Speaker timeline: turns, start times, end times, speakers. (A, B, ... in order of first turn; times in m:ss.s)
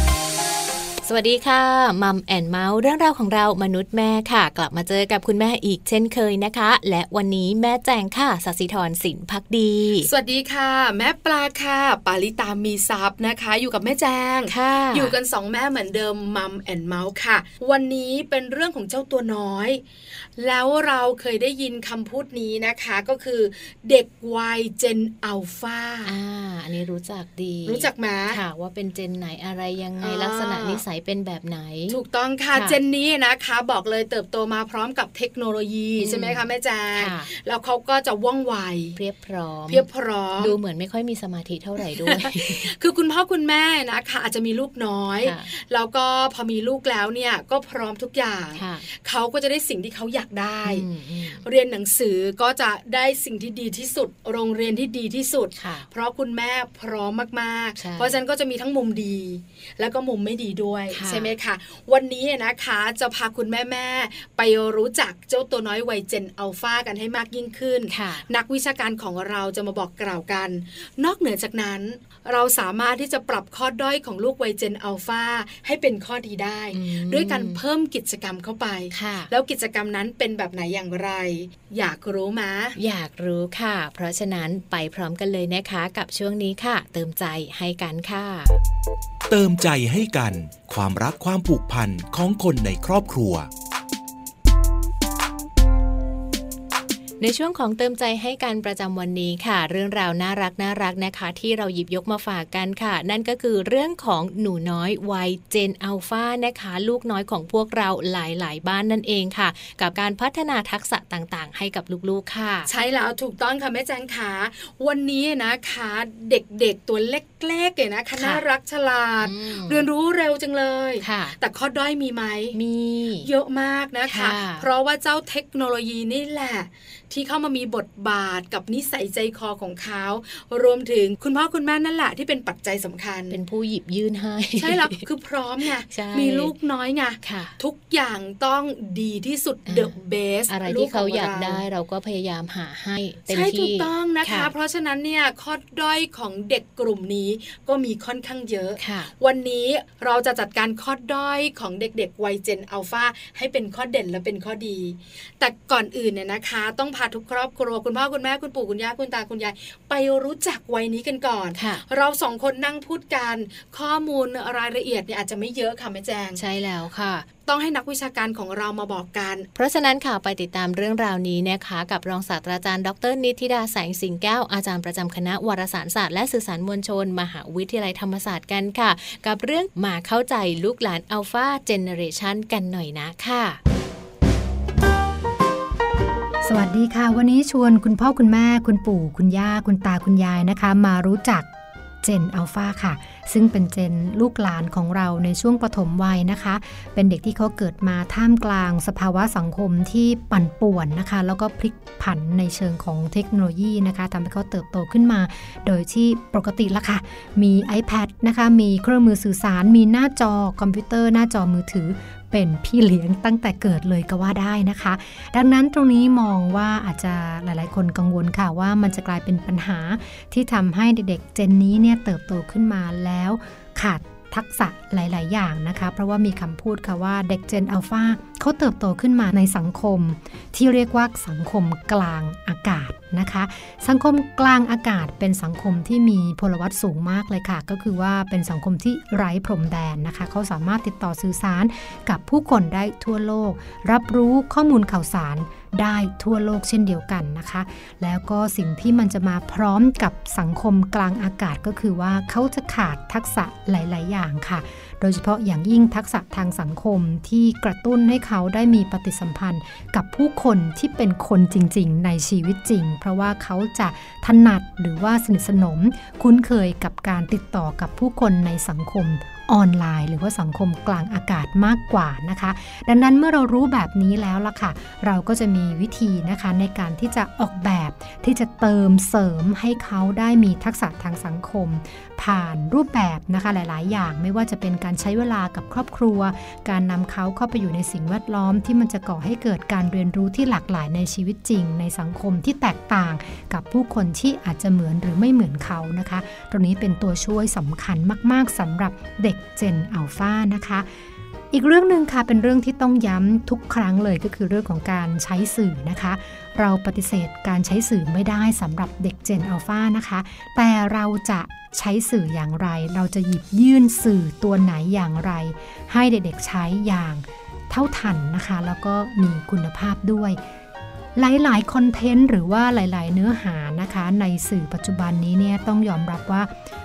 0:01.0-0:10.1 A
0:10.0-0:19.8 B
0:14.5-0:15.2 A
0:20.4-0:26.1 B
0:26.0-0:32.0 A
0:27.7-0:28.4 B
0:30.0-0:30.8 B
0:31.9-0:39.0 B
0:32.5-0:32.8 A
0:36.0-0:37.3 A
0:39.0-0:39.8 A
0:39.7-0:40.6 B
0:40.4-0:42.7 A
0:41.9-0:50.9 B
0:45.2-0:45.5 A
0:48.6-0:48.9 A
0:50.7-0:51.4 A
0:51.4-1:22.8 B
0:55.6-0:55.9 A
0:57.8-0:58.2 A
1:00.9-1:01.3 A
1:07.9-1:08.3 A
1:16.7-1:17.6 A
1:18.9-1:19.3 A
1:22.8-1:28.6 A
1:29.3-1:33.5 C
1:37.2-1:52.7 A
1:52.7-2:02.6 B
1:58.2-1:58.4 A
1:59.2-1:59.8 A
2:01.0-2:01.4 A
2:02.5-2:03.3 A
2:03.2-2:13.4 B
2:04.1-2:04.7 A
2:13.3-2:15.0 A
2:14.6-2:21.6 B
2:15.9-2:16.5 A
2:17.2-2:17.6 A
2:19.7-2:20.0 A
2:20.5-2:24.5 A
2:23.3-2:46.4 B
2:28.8-2:29.1 A
2:41.6-2:41.8 A
2:46.4-2:47.3 A
2:47.5-2:49.5 B
2:49.6-3:03.6 A
3:06.4-3:11.5 D
3:12.0-5:00.9 D
5:01.5-5:20.4 D
5:21.2-5:26.5 D